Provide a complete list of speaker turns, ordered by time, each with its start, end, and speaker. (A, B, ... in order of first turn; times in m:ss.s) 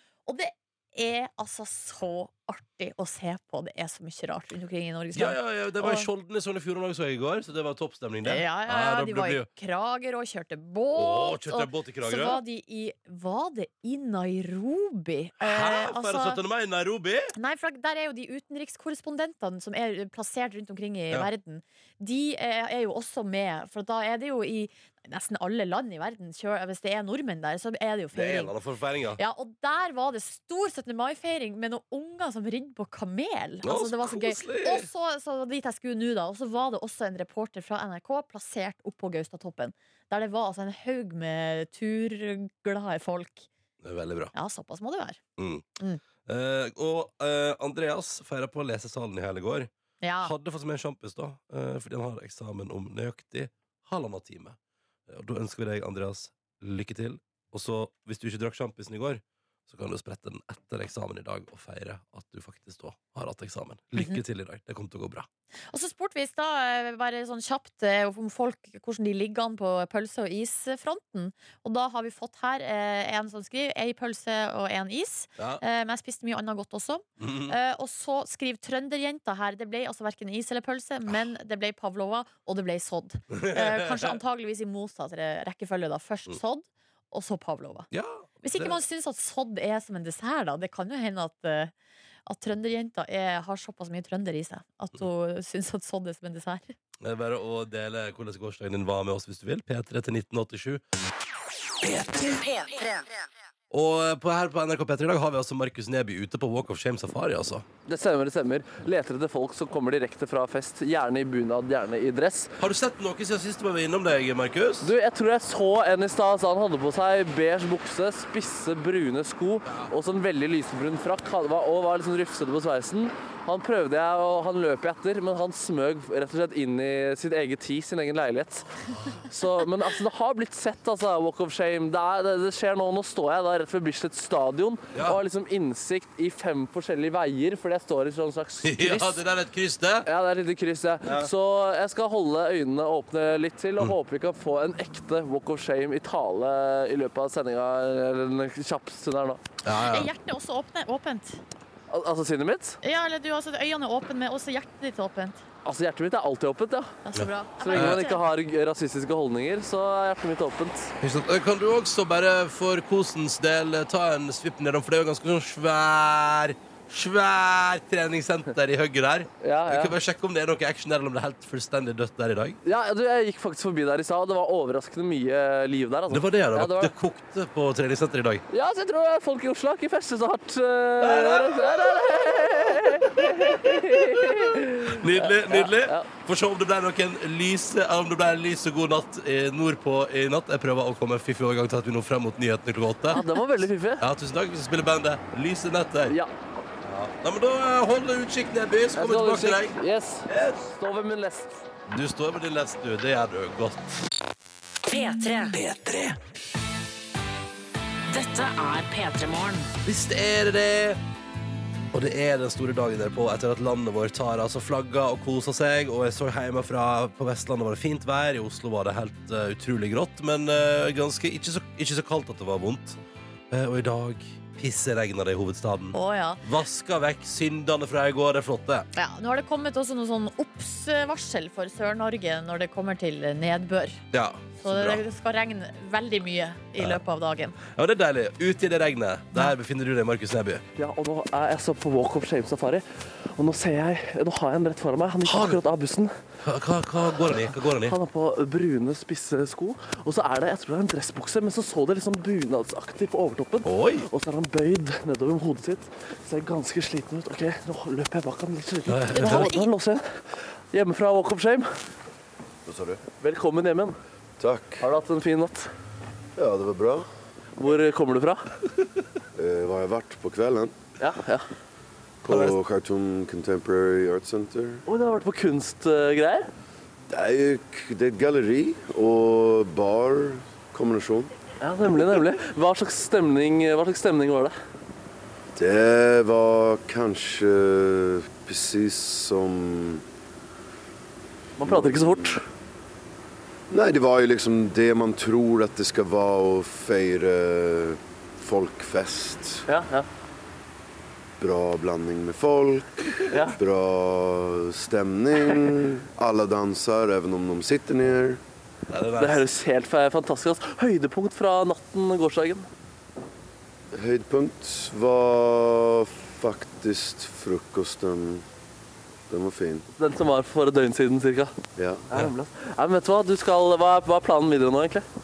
0:00.3-0:06.1 A
0:05.1-0:09.5 B
0:08.2-0:16.4 A
0:10.9-0:12.4 B
0:15.4-0:17.3 B
0:17.4-0:28.5 A
0:28.1-0:29.2 B
0:29.2-0:43.5 A
0:33.6-0:34.9 B
0:43.8-0:44.3 B
0:44.3-0:45.2 A
0:45.4-0:45.6 B
0:46.2-0:54.6 B
0:50.0-0:50.3 A
0:55.1-1:05.3 B
1:05.7-1:27.9 A
1:17.2-1:17.6 B
1:23.3-1:24.2 B
1:27.9-1:28.8 B
1:28.4-1:31.7 A
1:32.3-1:36.7 A
1:37.0-1:40.8 B
1:41.8-1:43.1 C
1:43.7-1:47.7 B
1:47.9-1:52.5 D
1:52.6-1:54.9 B
1:54.8-2:08.7 D
2:09.2-2:19.2 D
2:18.6-2:20.1 B
2:20.0-2:29.4 D
2:21.0-2:21.3 B
2:29.6-2:30.1 B
2:29.8-2:31.4 A
2:31.9-2:32.8 D
2:32.8-2:35.4 A
2:35.6-2:37.0 D
2:37.0-2:38.2 A
2:37.2-2:38.0 B
2:37.6-2:40.9 D
2:41.0-2:52.6 B
2:49.4-2:50.0 D
2:52.6-2:56.9 D
2:56.1-2:58.4 B
2:58.5-3:06.1 D
3:01.0-3:01.6 B
3:03.2-3:03.5 B
3:04.8-3:13.2 B
3:13.1-3:14.1 D
3:14.0-3:16.2 B
3:16.8-3:19.8 B
3:19.0-3:21.6 D
3:20.3-3:20.6 B
3:21.9-3:23.9 B
3:24.9-3:25.6 C
3:25.6-3:26.1 B
3:28.1-3:29.7 C
3:29.8-3:31.0 B
3:31.9-3:43.0 B
3:43.5-3:48.9 B
3:45.9-3:46.4 A
3:49.0-3:54.0 A
3:54.1-3:55.0 B
3:54.6-3:57.6 A
3:57.6-4:00.6 B
4:00.8-4:02.8 D
4:03.4-4:06.1 D
4:05.2-4:05.6 B
4:06.4-4:08.0 B
4:07.8-4:21.7 D
4:13.6-4:14.1 B
4:18.9-4:19.5 B
4:19.2-4:19.7 A
4:22.7-4:23.0 E
4:23.2-4:24.0 D
4:24.4-4:24.8 E
4:24.8-4:25.7 D
4:26.4-4:27.1 E
4:27.6-4:28.4 D
4:29.4-4:30.8 E
4:31.0-4:31.5 D
4:32.2-4:34.8 E
4:32.3-4:32.6 B
4:34.9-4:36.5 D
4:37.1-4:41.3 E
4:41.6-4:44.6 D
4:45.6-4:50.0 E
4:51.6-4:52.4 D
4:51.6-4:52.4 E
4:53.7-4:59.6 E
4:59.7-5:00.1 D
5:01.4-5:08.4 E
5:03.3-5:03.6 D
5:08.9-5:09.4 B
5:09.2-5:12.7 D
5:13.9-5:18.4 E
5:19.3-5:19.8 E
5:20.0-5:21.5 D
5:21.8-5:22.0 E
5:22.1-5:25.0 D